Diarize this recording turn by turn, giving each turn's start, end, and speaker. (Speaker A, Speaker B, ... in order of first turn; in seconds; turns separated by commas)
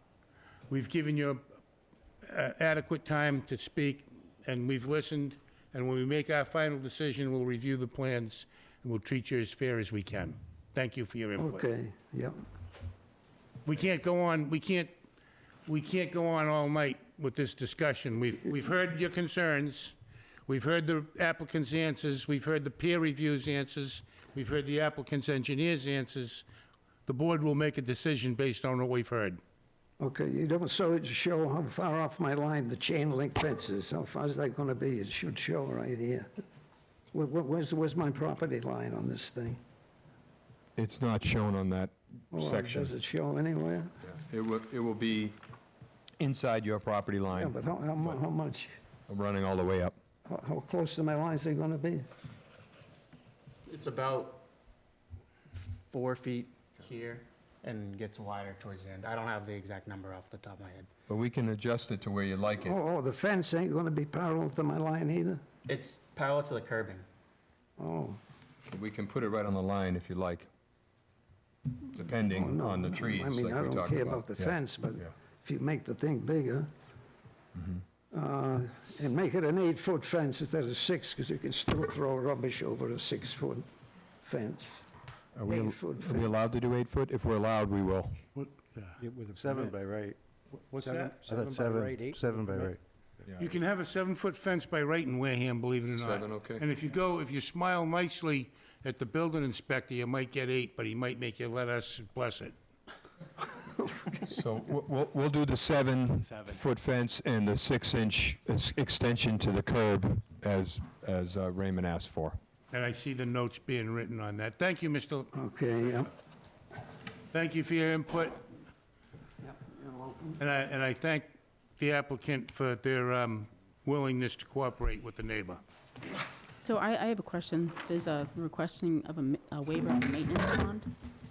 Speaker A: 0.7-1.4, Speaker A: 2.2-11.6, Speaker B: 11.4-12.4, Speaker A: 13.7-14.9, Speaker A: 15.7-20.0, Speaker A: 20.5-26.4, Speaker A: 27.1-29.4, Speaker B: 30.0-36.3, Speaker B: 37.1-39.6, Speaker C: 40.8-42.9, Speaker B: 42.3-43.9, Speaker C: 44.0-45.4, Speaker C: 46.2-47.5, Speaker B: 47.4-48.7, Speaker C: 49.1-50.0, Speaker B: 50.3-52.0, Speaker D: 53.7-54.5, Speaker D: 55.9-60.9, Speaker C: 61.1-62.8, Speaker B: 62.6-65.4, Speaker D: 65.7-67.1, Speaker B: 67.8-68.2, Speaker C: 68.7-70.5, Speaker C: 71.9-75.1, Speaker B: 72.2-76.7, Speaker C: 77.6-77.8, Speaker B: 78.1-83.7, Speaker B: 84.2-84.8, Speaker C: 85.3-88.2, Speaker B: 85.5-86.4, Speaker E: 88.8-89.8, Speaker F: 89.3-90.2, Speaker E: 90.7-92.8, Speaker F: 90.7-92.8, Speaker C: 93.3-93.6, Speaker A: 93.4-102.5, Speaker C: 96.0-96.7, Speaker B: 103.7-104.1, Speaker C: 104.3-112.4, Speaker A: 112.7-115.3, Speaker B: 115.3-116.1, Speaker A: 117.3-118.4, Speaker A: 120.4-121.3, Speaker A: 121.8-125.6, Speaker G: 126.6-130.9